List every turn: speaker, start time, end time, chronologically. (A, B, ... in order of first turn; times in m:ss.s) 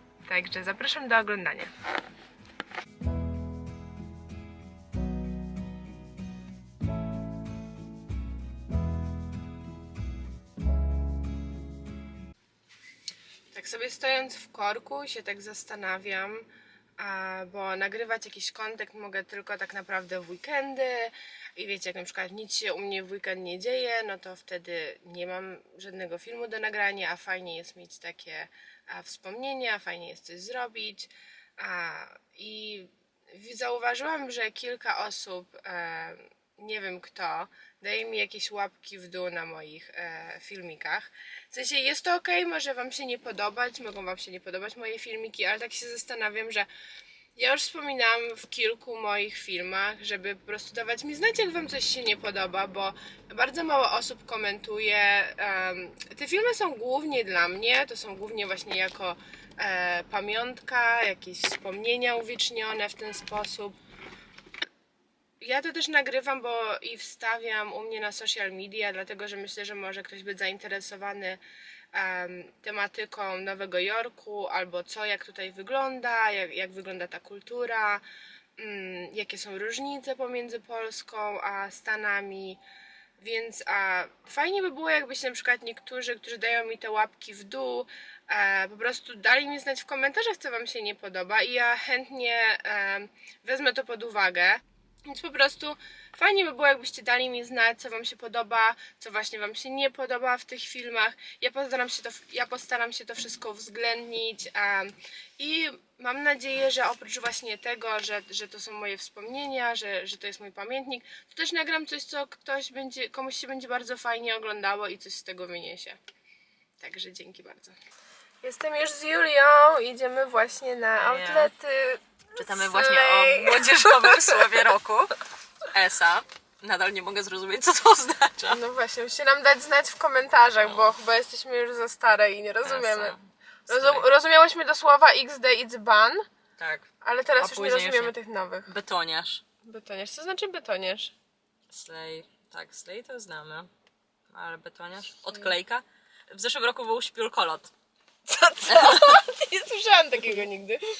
0:00.2-0:01.7 A
0:13.5-0:16.5 A
0:17.0-0:46.7 A
0:47.3-1:03.8 A
1:05.4-1:11.4 A
1:11.9-1:18.0 A
1:18.6-1:22.6 A
1:23.2-1:56.0 A
1:56.8-1:57.8 A
1:58.4-2:04.3 A
2:01.0-2:01.5 B
2:02.4-2:08.6 B
2:08.5-2:13.1 A
2:10.6-2:10.9 B
2:12.6-2:14.1 B
2:13.7-2:16.2 A
2:16.6-2:16.9 B
2:17.0-2:18.7 A
2:17.4-2:18.1 B
2:18.7-2:19.4 B
2:19.6-2:21.1 A
2:21.7-2:23.7 B
2:24.3-2:27.7 B
2:28.3-2:30.9 A
2:28.7-2:29.2 B